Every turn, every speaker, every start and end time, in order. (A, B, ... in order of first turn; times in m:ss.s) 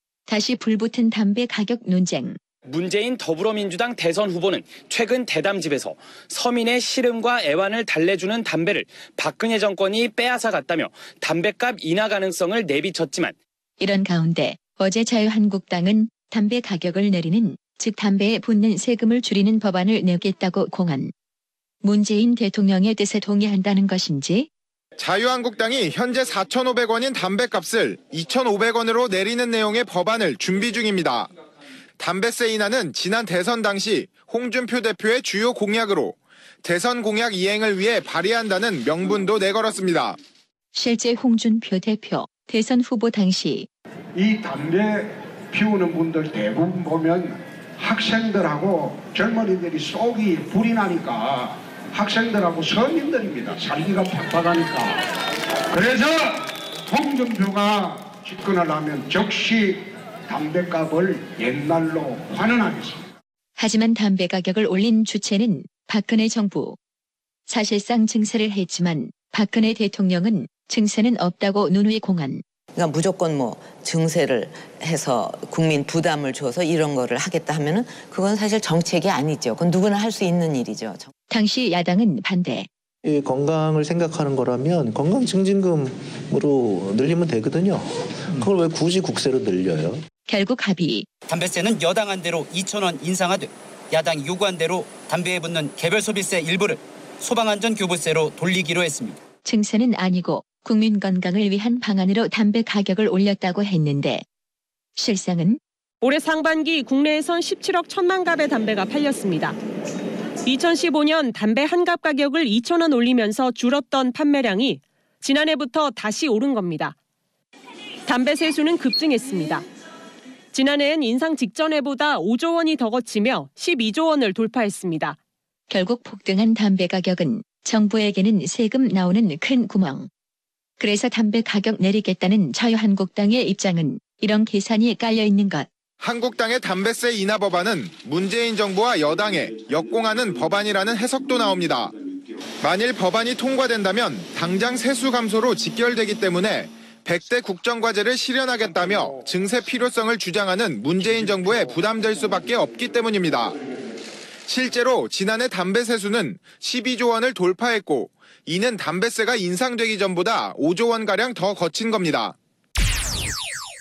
0:00.3-0:02.4 A
0:02.6-0:13.4 B
0:13.8-0:21.1 A
0:21.8-0:24.5 A
0:25.0-0:31.3 C
0:32.0-0:40.2 C
0:40.7-0:43.7 A
0:44.2-0:55.0 D
0:55.7-1:03.0 D
1:03.6-1:06.8 A
1:07.5-1:12.4 A
1:12.8-1:21.1 E
1:21.3-1:22.7 A
1:23.0-1:30.0 F
1:30.3-1:31.1 A
1:31.3-1:39.2 G
1:39.4-1:44.2 A
1:45.0-1:45.6 A
1:46.0-1:49.6 H
1:50.5-1:57.0 H
1:58.1-1:59.6 H
2:00.5-2:05.2 H
2:05.7-2:10.1 A
2:10.8-2:15.7 A
2:16.0-2:21.9 C
2:22.6-2:33.6 C
2:34.5-2:42.4 C